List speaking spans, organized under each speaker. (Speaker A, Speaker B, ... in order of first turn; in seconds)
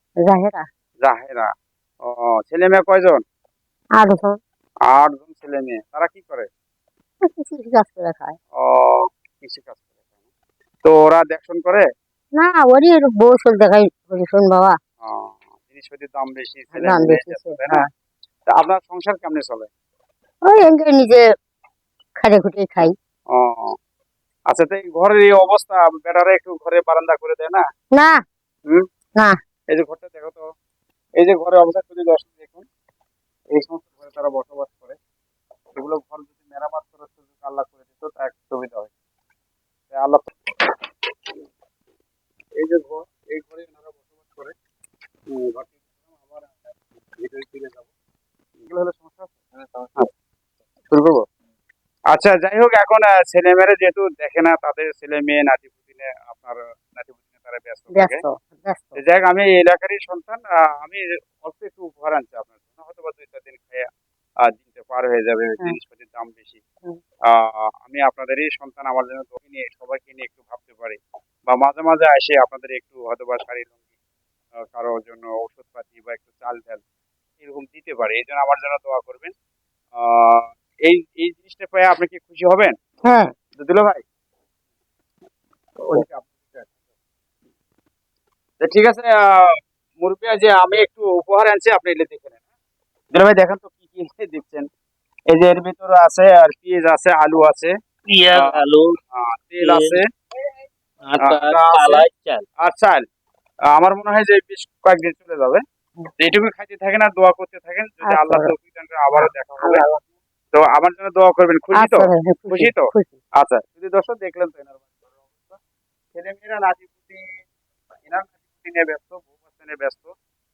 Speaker A: 0.2-0.6, 4.0-4.4, 7.2-8.4, 12.3-14.8, 16.7-17.8, 20.4-21.2, 22.2-22.9, 27.9-28.2, 57.9-59.0, 83.0-83.3, 108.1-108.5, 109.1-110.0, 111.8-113.2
Speaker B: 1.0-1.5, 2.0-3.2, 4.9-6.5, 8.6-10.2, 10.8-11.8, 15.0-17.8, 18.6-19.7, 23.3-23.7, 24.5-27.6, 29.7-30.4, 31.2-32.6, 33.5-35.0, 35.7-38.9, 39.9-40.3, 42.6-44.5, 45.3-47.9, 48.6-49.4, 50.9-51.2, 52.1-58.2, 59.0-63.9, 64.5-66.6, 67.8-73.8, 74.7-76.8, 77.4-79.3, 80.0-82.7, 83.6-84.0, 85.8-86.8, 88.6-92.4, 93.1-94.7, 95.3-97.7, 99.1-100.0, 101.2-102.0, 102.6-103.0, 103.8-105.6, 106.2-109.8, 110.5-115.6, 116.1-117.2, 118.0-120.1
Speaker C: 98.1-98.9, 99.6-100.0, 101.1-102.4